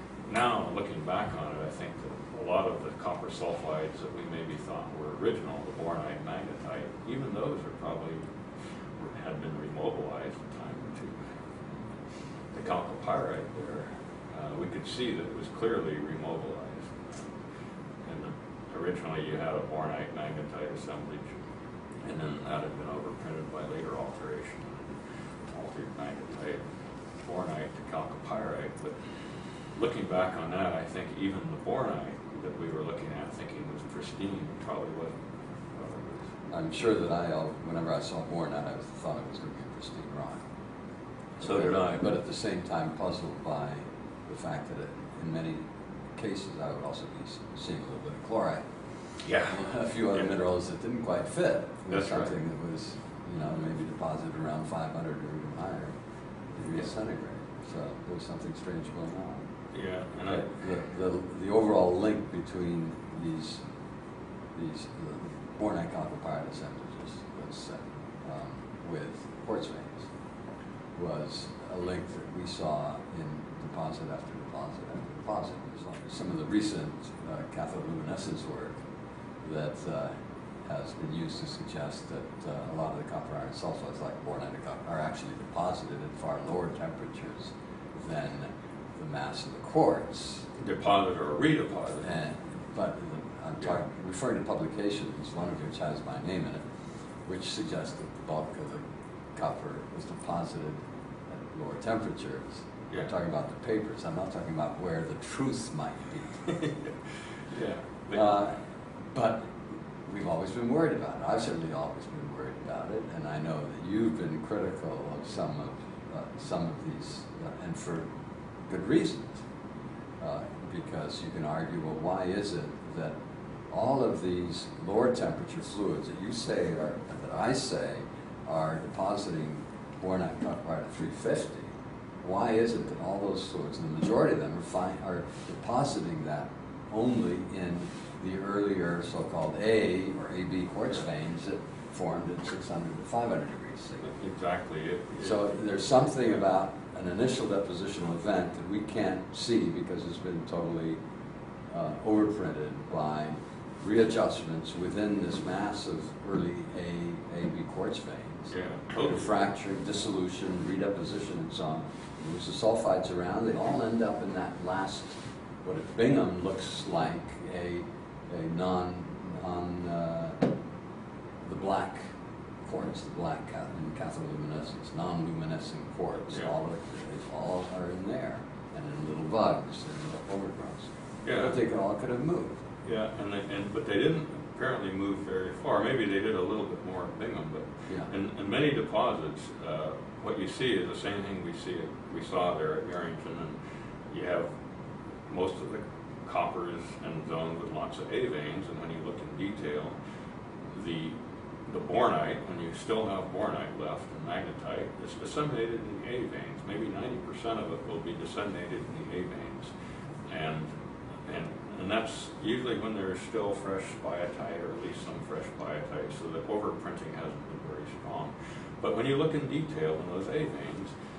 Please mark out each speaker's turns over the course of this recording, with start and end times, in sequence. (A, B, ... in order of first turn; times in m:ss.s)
0:00.3-0:08.3 A
0:09.0-0:11.9 A
0:12.5-0:17.4 A
0:18.0-0:21.3 A
0:22.0-0:25.0 A
0:25.5-0:26.7 A
0:27.2-0:29.0 A
0:29.7-0:36.3 A
0:36.5-0:40.4 B
0:41.4-0:42.0 A
0:41.4-0:48.7 B
0:49.2-0:49.6 A
0:49.4-0:55.9 B
0:51.9-0:52.3 A
0:56.5-0:59.4 B
0:59.7-1:00.5 A
1:00.3-1:03.6 B
1:04.5-1:10.1 B
1:11.0-1:18.8 B
1:19.4-1:20.1 B
1:20.6-1:30.5 B
1:30.6-1:32.1 A
1:32.0-1:36.6 B
1:37.2-1:46.6 B
1:47.5-1:48.4 A
1:48.1-1:58.1 B
1:58.7-1:59.4 B
2:00.2-2:03.2 B
2:03.7-2:24.1 B
2:24.0-2:25.5 A
2:25.2-2:31.0 B
2:31.7-2:50.4 B
2:38.5-2:39.3 A
2:51.4-2:52.0 B
2:52.6-3:02.6 B
3:01.2-3:01.6 A
3:02.8-3:13.6 A
3:14.1-3:14.5 A
3:15.3-3:20.0 A
3:20.7-3:21.2 A
3:21.7-3:29.7 A
3:30.3-3:30.7 A
3:31.2-3:40.9 A